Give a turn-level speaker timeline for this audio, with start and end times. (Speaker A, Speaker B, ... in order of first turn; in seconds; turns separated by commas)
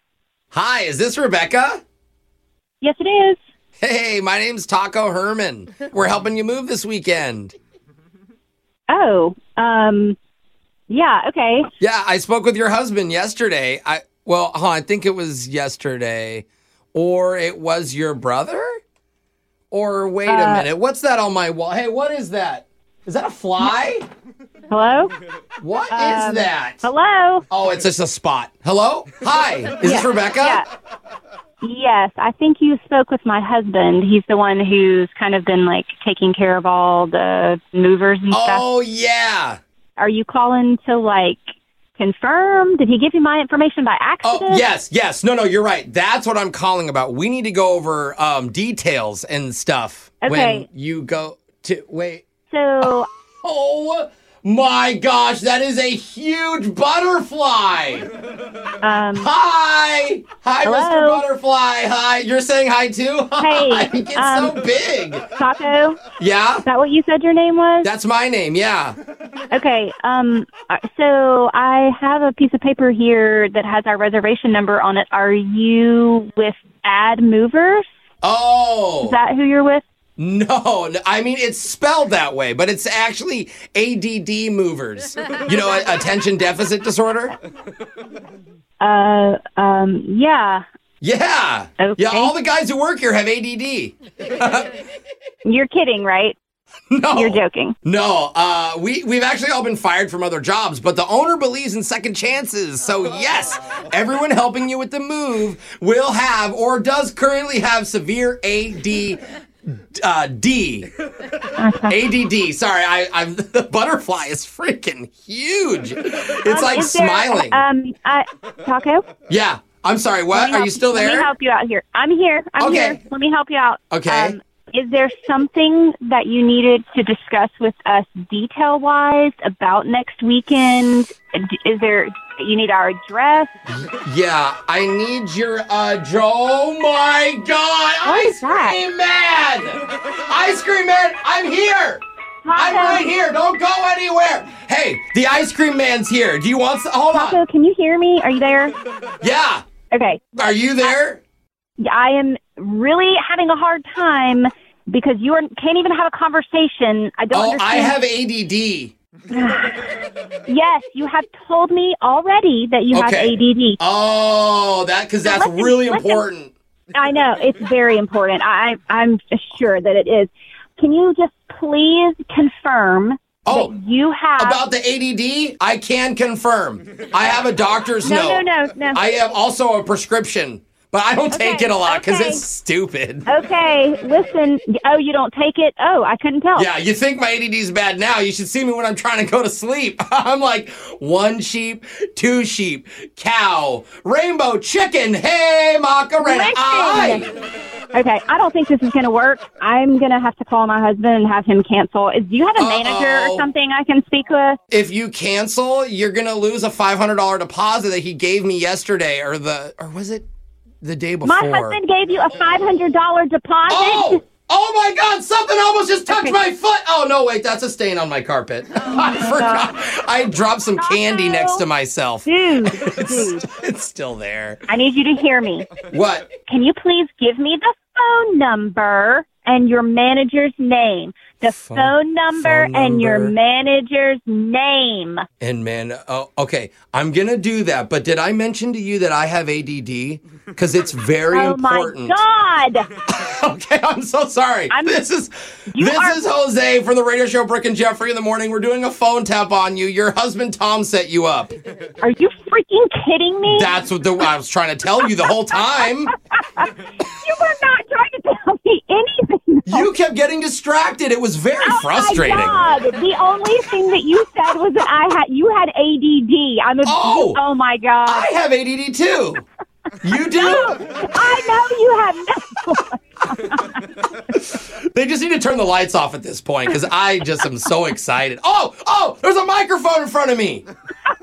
Speaker A: 0.5-1.8, Speaker B: 2.8-3.4, Speaker A: 3.8-7.5, Speaker B: 8.9-10.2, Speaker B: 10.9-11.7, Speaker A: 11.8-18.7, Speaker A: 19.7-24.1, Speaker B: 20.3-20.7, Speaker B: 24.7-25.1, Speaker A: 25.6-26.9, Speaker B: 25.9-27.4, Speaker A: 27.5-30.6, Speaker B: 29.8-30.6, Speaker B: 31.6-38.6, Speaker A: 38.3-39.6, Speaker B: 40.0-44.6, Speaker A: 44.2-52.3, Speaker B: 50.2-50.7, Speaker B: 52.5-53.1, Speaker A: 52.8-58.1, Speaker B: 58.8-59.3, Speaker A: 59.1-65.2, Speaker B: 60.6-61.2, Speaker B: 63.4-64.5, Speaker B: 65.4-66.0, Speaker A: 66.2-66.6, Speaker B: 66.6-67.9, Speaker A: 67.8-69.0, Speaker B: 69.5-77.8, Speaker A: 78.2-79.2, Speaker B: 79.0-79.8, Speaker A: 80.2-87.3, Speaker B: 88.8-90.6, Speaker A: 91.0-94.8, Speaker B: 91.8-92.3, Speaker B: 95.5-96.4, Speaker A: 96.9-109.2, Speaker B: 97.1-97.8, Speaker A: 110.0-110.9, Speaker B: 111.6-112.0, Speaker A: 111.9-117.6, Speaker B: 116.5-119.0, Speaker A: 119.3-121.3, Speaker B: 120.3-133.5, Speaker A: 122.6-123.0, Speaker A: 123.9-124.3, Speaker A: 133.7-142.0, Speaker B: 138.1-138.8, Speaker B: 142.5-143.1, Speaker A: 142.6-147.4, Speaker B: 147.1-148.7, Speaker A: 149.2-149.6, Speaker B: 149.9-150.9, Speaker A: 150.4-151.2, Speaker B: 151.8-157.9, Speaker A: 157.3-158.9, Speaker B: 159.3-159.8, Speaker B: 160.5-163.8, Speaker A: 162.9-166.5, Speaker B: 165.2-166.2, Speaker B: 166.9-174.6, Speaker A: 173.5-173.7, Speaker A: 174.4-183.3, Speaker B: 178.1-179.1, Speaker B: 181.3-182.4, Speaker B: 183.3-186.7, Speaker A: 186.6-197.3, Speaker B: 196.2-197.2, Speaker B: 197.9-204.6, Speaker A: 202.6-203.5, Speaker A: 204.7-210.3, Speaker A: 210.8-211.8, Speaker B: 211.2-214.2, Speaker A: 213.7-224.6, Speaker B: 216.1-216.4, Speaker B: 218.9-219.7, Speaker B: 220.8-221.7, Speaker B: 222.3-223.4, Speaker B: 224.7-225.7, Speaker A: 225.9-226.3, Speaker B: 226.5-235.2, Speaker A: 231.5-233.3, Speaker A: 235.4-242.2, Speaker B: 241.3-242.9, Speaker A: 243.1-251.6, Speaker B: 244.7-245.0, Speaker B: 245.8-246.2, Speaker B: 252.0-253.7, Speaker A: 253.4-256.1, Speaker B: 255.5-259.9, Speaker A: 259.7-262.6, Speaker B: 261.6-268.3, Speaker A: 266.9-267.4, Speaker A: 268.1-269.4, Speaker A: 270.0-270.8, Speaker B: 270.4-273.8, Speaker A: 274.3-280.6